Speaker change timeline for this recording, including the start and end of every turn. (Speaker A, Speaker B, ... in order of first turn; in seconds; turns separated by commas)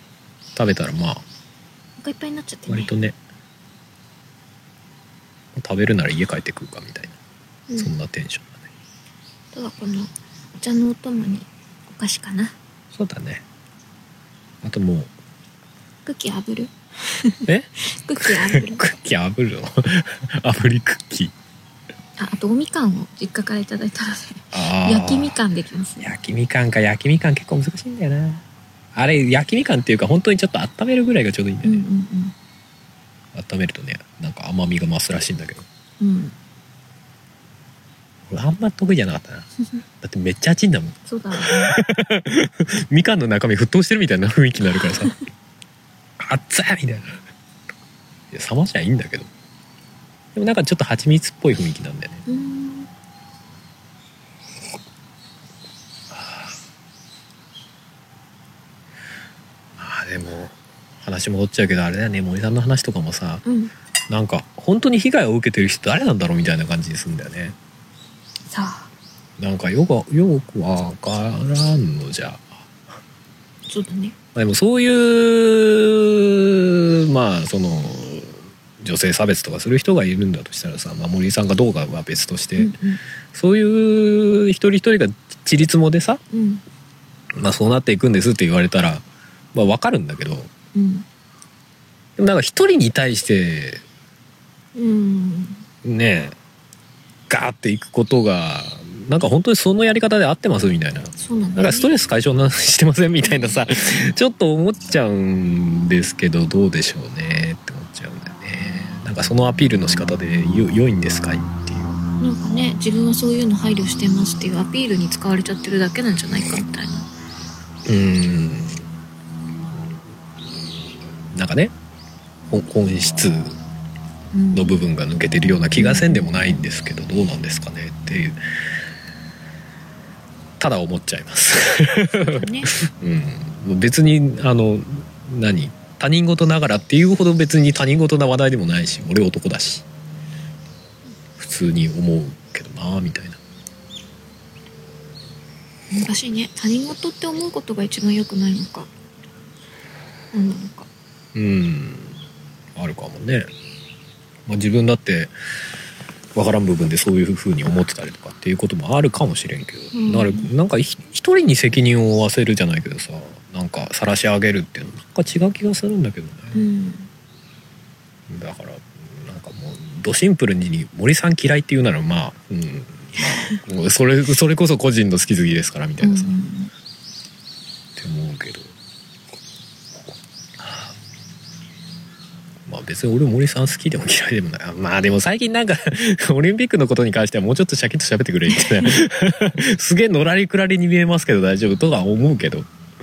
Speaker A: 0.6-1.2, Speaker B: 2.0-2.9, Speaker A: 2.7-3.2, Speaker A: 5.5-7.2, Speaker A: 7.8-8.7, Speaker B: 9.5-12.6, Speaker A: 12.9-13.4, Speaker A: 14.6-15.1, Speaker B: 16.1-18.8, Speaker A: 17.5-21.3, Speaker B: 22.2-26.1, Speaker A: 24.5-25.4, Speaker A: 26.0-28.4, Speaker A: 28.9-31.9, Speaker B: 31.6-32.4, Speaker A: 33.3-35.7, Speaker B: 36.0-36.4, Speaker A: 38.3-39.5, Speaker A: 40.0-45.2, Speaker B: 41.1-41.8, Speaker A: 46.2-47.2, Speaker A: 48.3-49.3, Speaker A: 50.4-52.2, Speaker B: 52.3-52.9, Speaker A: 56.1-56.5, Speaker A: 59.8-63.4, Speaker B: 63.5-63.7, Speaker A: 64.1-67.6, Speaker B: 68.5-68.9, Speaker A: 69.4-72.7, Speaker B: 73.7-74.2, Speaker A: 74.3-82.8, Speaker B: 82.6-83.0, Speaker A: 83.3-86.2, Speaker B: 86.3-86.6, Speaker A: 87.4-90.5, Speaker B: 90.7-91.1, Speaker A: 92.2-93.8, Speaker B: 94.8-95.6, Speaker A: 95.8-96.3, Speaker A: 97.3-112.0, Speaker B: 101.2-101.9, Speaker B: 103.2-103.7, Speaker B: 112.2-117.1, Speaker A: 117.9-118.9, Speaker A: 121.3-121.7, Speaker A: 122.5-123.6, Speaker B: 124.3-124.8, Speaker A: 124.5-128.4, Speaker B: 125.8-126.2, Speaker A: 130.6-139.8, Speaker B: 132.2-132.7, Speaker A: 141.4-143.4, Speaker B: 145.9-148.9, Speaker B: 150.3-150.9, Speaker A: 151.3-152.2, Speaker A: 152.8-153.5, Speaker A: 154.5-155.3, Speaker A: 156.3-166.6, Speaker B: 159.9-160.5, Speaker B: 166.5-167.1, Speaker A: 168.3-176.4, Speaker B: 176.0-176.7, Speaker A: 178.0-178.7, Speaker A: 180.6-180.9, Speaker A: 182.7-192.7, Speaker B: 188.5-189.0